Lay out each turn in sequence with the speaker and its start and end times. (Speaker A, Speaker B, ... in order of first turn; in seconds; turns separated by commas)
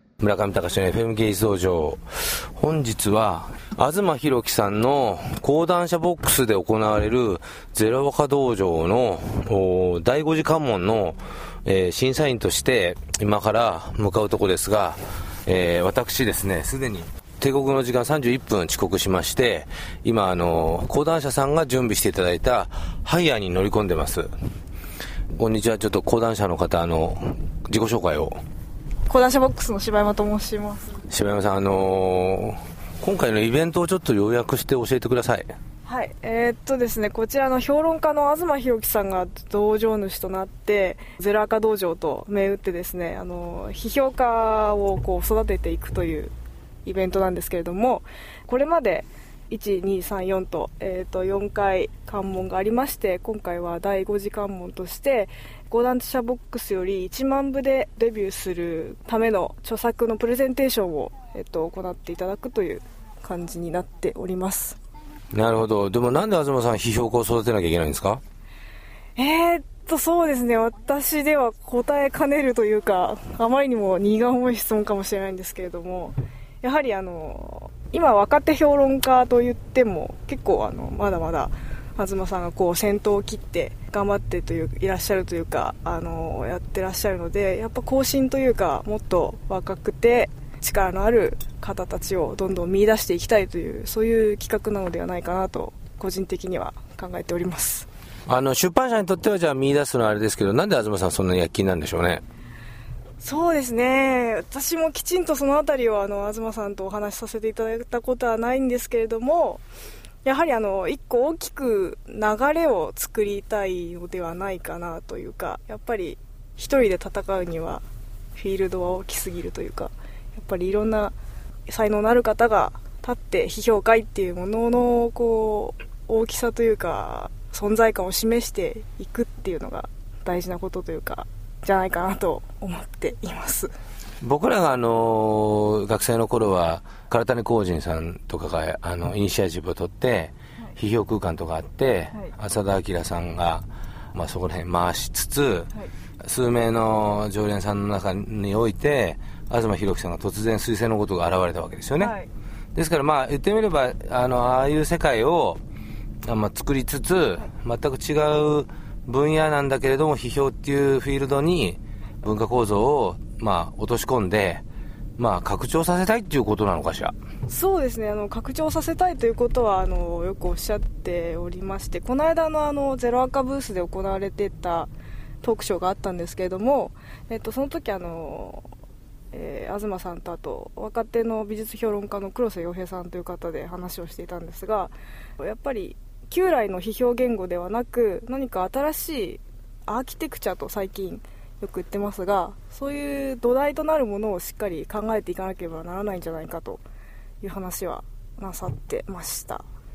Speaker A: 0.2-24.3, Speaker A: 25.4-28.3, Speaker B: 29.1-31.0, Speaker A: 31.1-35.5, Speaker B: 35.8-46.3, Speaker B: 46.8-64.8, Speaker A: 65.3-68.2, Speaker B: 69.2-97.9, Speaker A: 98.3-102.2, Speaker B: 103.2-109.6, Speaker B: 110.2-117.8, Speaker B: 118.3-121.1, Speaker B: 121.7-133.7, Speaker A: 134.2-145.7, Speaker A: 146.2-152.1, Speaker B: 152.0-152.3, Speaker A: 152.7-155.6, Speaker A: 156.3-164.6, Speaker A: 165.2-167.1, Speaker B: 167.5-174.9, Speaker B: 175.4-178.7, Speaker B: 179.3-196.8, Speaker B: 197.4-199.6